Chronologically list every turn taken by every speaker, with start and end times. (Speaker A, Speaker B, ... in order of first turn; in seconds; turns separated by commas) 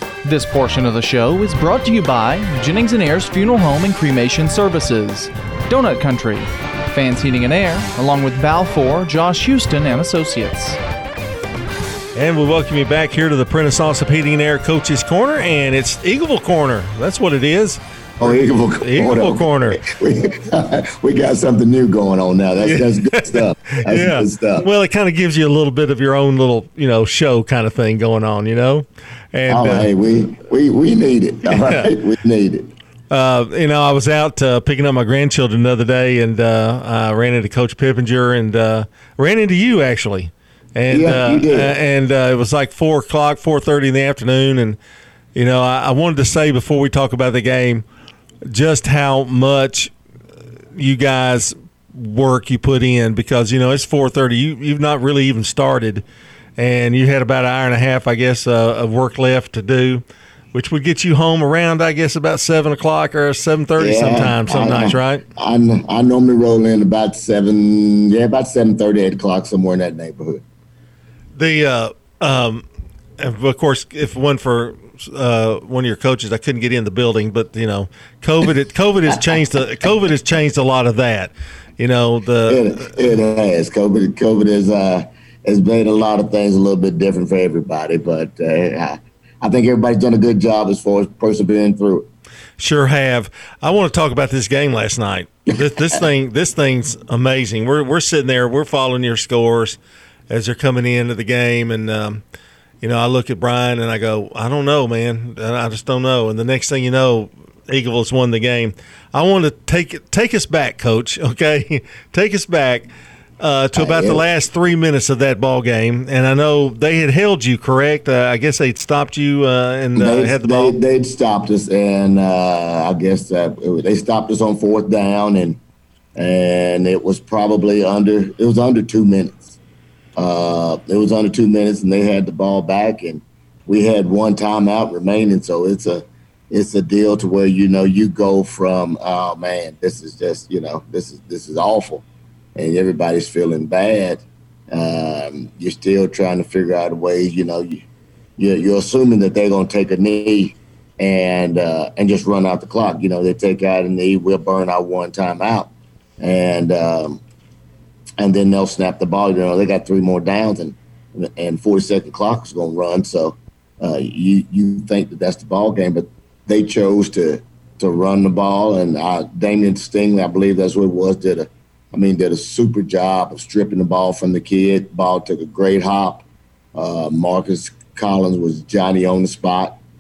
Speaker A: 0.2-10.8, Speaker B: 12.2-19.8, Speaker C: 18.2-24.7, Speaker B: 22.6-29.9, Speaker C: 29.5-32.7, Speaker B: 31.4-31.9, Speaker B: 33.1-44.8, Speaker C: 40.9-41.8, Speaker B: 45.4-47.9, Speaker B: 48.5-49.9, Speaker B: 50.8-56.0, Speaker B: 56.6-65.2, Speaker C: 63.8-70.4, Speaker B: 71.3-72.7, Speaker B: 73.2-82.9, Speaker C: 82.5-92.1, Speaker B: 92.6-102.2, Speaker B: 102.8-112.9, Speaker B: 113.4-120.8, Speaker C: 113.7-114.3, Speaker C: 120.0-125.6, Speaker C: 126.2-129.6, Speaker C: 130.2-147.8, Speaker C: 148.4-157.2, Speaker C: 158.2-179.8